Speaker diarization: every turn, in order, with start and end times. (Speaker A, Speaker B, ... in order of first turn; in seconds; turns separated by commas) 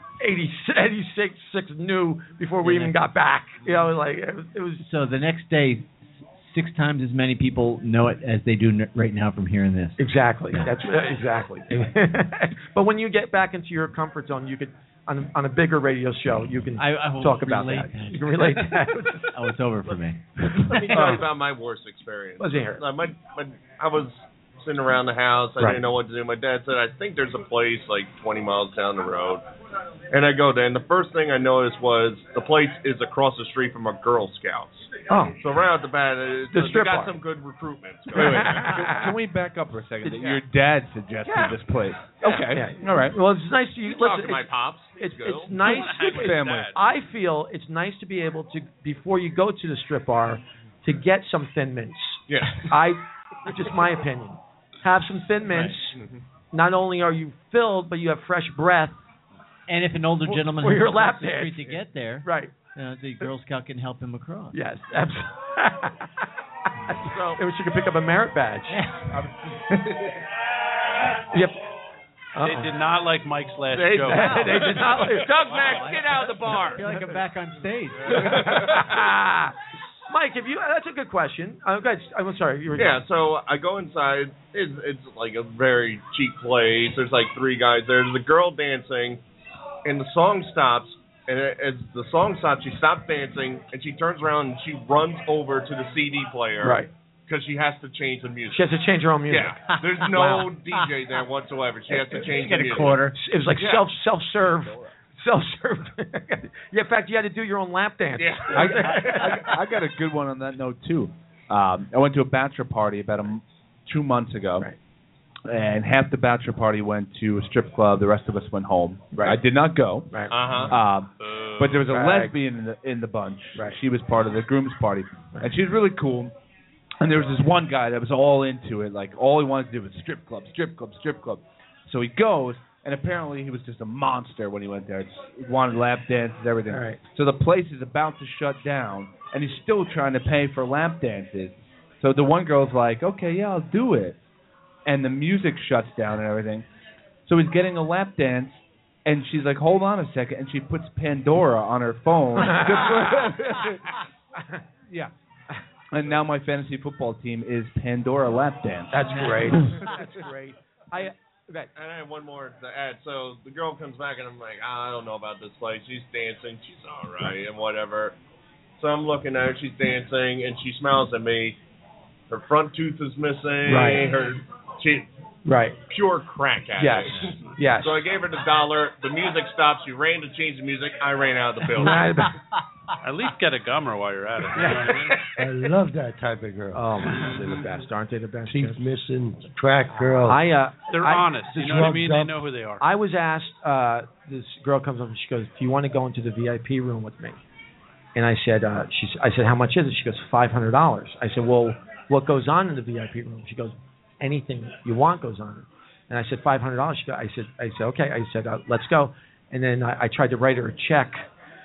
Speaker A: 0.2-4.8, Speaker B: 2.6-2.9, Speaker B: 4.8-10.0, Speaker A: 10.0-19.3, Speaker B: 16.8-21.1, Speaker C: 20.7-29.4, Speaker A: 20.9-21.3, Speaker A: 22.4-22.9, Speaker C: 30.1-38.7, Speaker A: 35.1-35.4, Speaker A: 36.5-37.1, Speaker A: 38.1-39.1, Speaker D: 38.1-43.1, Speaker A: 40.0-40.4, Speaker A: 41.3-41.5, Speaker A: 42.2-56.0, Speaker C: 43.8-45.5, Speaker E: 45.5-46.7, Speaker D: 45.8-46.7, Speaker C: 52.3-52.7, Speaker A: 56.5-59.0, Speaker B: 59.7-64.5, Speaker A: 60.3-62.5, Speaker A: 64.5-66.1, Speaker A: 66.9-68.8, Speaker C: 67.0-67.4, Speaker B: 68.7-69.2, Speaker D: 69.1-70.0, Speaker A: 72.3-72.7, Speaker E: 72.4-74.8, Speaker C: 73.7-76.9, Speaker A: 74.0-75.3, Speaker B: 74.1-74.7, Speaker B: 75.5-78.3, Speaker C: 78.1-79.0, Speaker A: 78.1-79.5, Speaker A: 80.1-83.0, Speaker C: 82.8-89.2, Speaker C: 89.8-98.6, Speaker A: 96.6-96.9, Speaker A: 98.5-100.5, Speaker C: 99.3-103.9, Speaker B: 99.7-100.8, Speaker A: 101.9-102.3, Speaker B: 102.2-103.2, Speaker A: 103.1-109.5, Speaker C: 108.2-109.4, Speaker D: 108.5-114.7, Speaker D: 115.5-120.1, Speaker A: 120.1-120.7, Speaker C: 120.3-120.7, Speaker D: 120.7-126.3, Speaker A: 121.9-122.3, Speaker D: 127.0-144.2, Speaker A: 136.7-137.0, Speaker D: 144.8-146.6, Speaker D: 147.2-153.8, Speaker A: 152.4-153.3, Speaker D: 155.9-159.4, Speaker A: 158.9-161.7, Speaker B: 159.1-159.7, Speaker C: 161.8-168.2, Speaker C: 168.8-171.6, Speaker C: 172.3-175.1, Speaker A: 173.7-174.1, Speaker A: 175.4-175.8, Speaker C: 175.9-182.3, Speaker A: 176.8-178.0, Speaker A: 181.7-182.3, Speaker E: 183.0-185.2, Speaker A: 184.6-184.9, Speaker C: 185.0-185.2, Speaker F: 185.4-187.5, Speaker A: 186.7-188.8, Speaker C: 187.1-187.7, Speaker F: 188.5-190.4, Speaker A: 190.2-192.1, Speaker E: 190.9-192.8, Speaker F: 191.6-192.4, Speaker A: 192.8-197.4, Speaker A: 198.1-211.2